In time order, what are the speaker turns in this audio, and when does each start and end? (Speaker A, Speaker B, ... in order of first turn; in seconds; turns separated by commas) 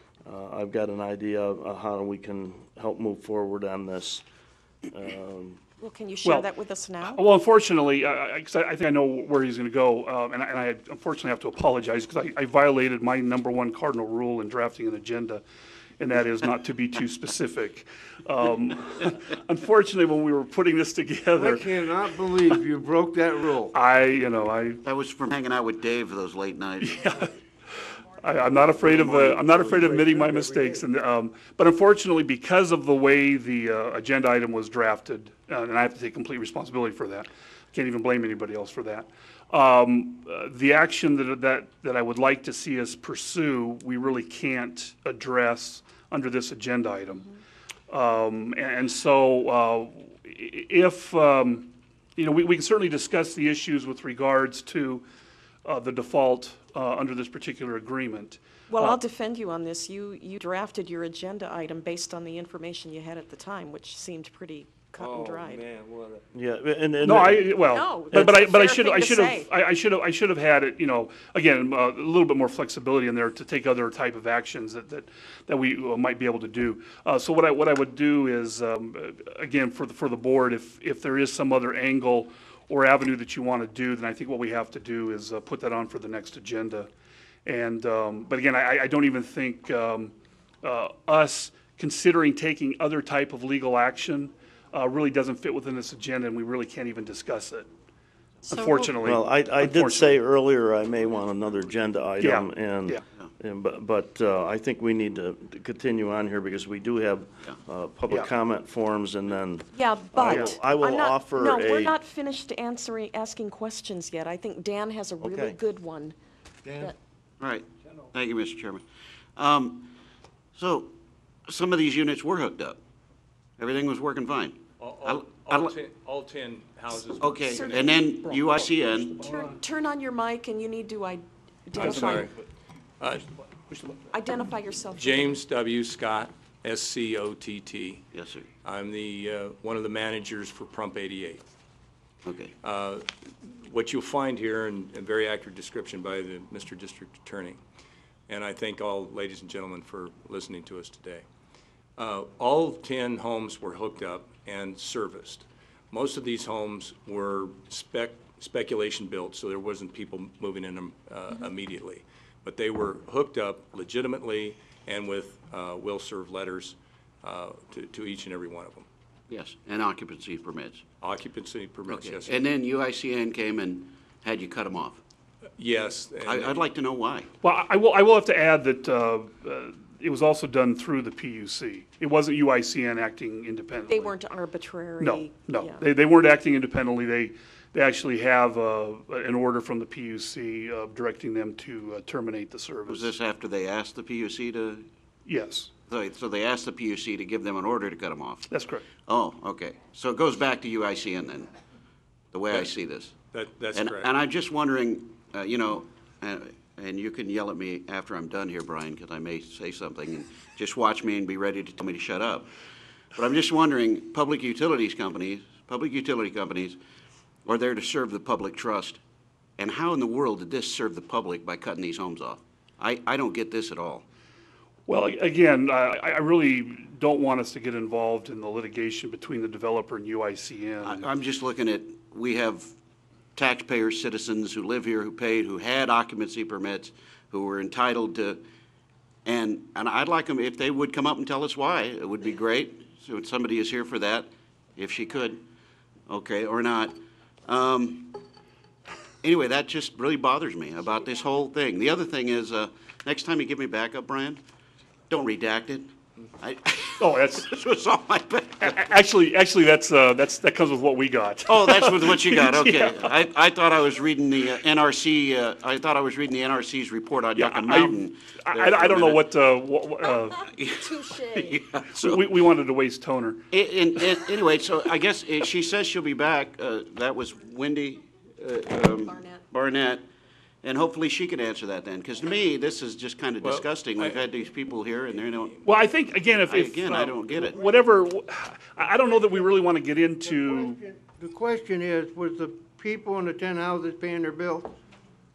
Speaker A: 0.2-4.2, Speaker A: 4.9-5.6, Speaker B: 5.8-7.2, Speaker C: 7.1-15.4, Speaker C: 16.0-21.7, Speaker D: 21.3-23.7, Speaker C: 23.8-24.8, Speaker E: 24.8-27.0, Speaker C: 27.0-27.3, Speaker C: 28.2-47.2, Speaker D: 28.8-30.8, Speaker C: 47.9-55.0, Speaker C: 55.6-59.0, Speaker B: 58.7-65.7, Speaker D: 65.0-66.2, Speaker A: 66.3-68.3, Speaker C: 67.0-86.9, Speaker B: 67.5-69.5, Speaker C: 87.5-90.1, Speaker C: 90.6-97.6, Speaker B: 98.5-98.9, Speaker C: 98.5-100.1, Speaker A: 99.0-111.9, Speaker C: 102.2-103.0, Speaker B: 109.7-116.2, Speaker C: 110.2-110.5, Speaker A: 115.2-115.6, Speaker D: 116.6-116.9, Speaker E: 117.4-118.8, Speaker E: 119.3-119.9, Speaker E: 120.5-120.9, Speaker E: 121.5-122.8, Speaker E: 123.6-125.7, Speaker F: 124.8-127.9, Speaker E: 127.2-129.2, Speaker B: 127.5-132.3, Speaker F: 131.7-132.4, Speaker F: 133.0-133.9, Speaker B: 134.1-135.4, Speaker F: 134.9-138.1, Speaker E: 138.1-138.5, Speaker F: 138.6-141.4, Speaker E: 142.2-142.5, Speaker F: 142.6-147.6, Speaker F: 148.3-151.2, Speaker F: 152.0-168.8, Speaker E: 169.3-170.8, Speaker F: 171.0-172.4, Speaker E: 171.9-175.0, Speaker F: 175.6-176.6, Speaker E: 176.2-177.3, Speaker C: 177.4-184.1, Speaker B: 183.9-185.9, Speaker C: 185.0-193.0, Speaker E: 192.9-194.8, Speaker C: 195.3-195.7, Speaker E: 195.9-198.5, Speaker C: 198.5-198.8, Speaker E: 199.1-201.5, Speaker E: 202.3-203.1, Speaker F: 203.3-204.1, Speaker E: 203.7-212.5, Speaker E: 213.1-216.8, Speaker E: 217.4-219.0, Speaker E: 219.6-224.0, Speaker C: 224.9-230.9, Speaker E: 230.8-232.7, Speaker E: 233.3-238.4, Speaker E: 239.2-245.4, Speaker E: 246.1-248.2, Speaker E: 249.2-254.4, Speaker E: 255.1-258.9, Speaker C: 258.6-263.0, Speaker E: 261.5-269.3, Speaker C: 267.4-267.9, Speaker C: 268.5-270.3, Speaker B: 270.2-271.6, Speaker E: 270.5-272.3, Speaker C: 271.9-273.4, Speaker E: 273.5-280.0, Speaker E: 280.6-285.6, Speaker F: 283.4-284.2, Speaker C: 285.7-290.7, Speaker E: 286.4-287.6, Speaker D: 290.2-294.8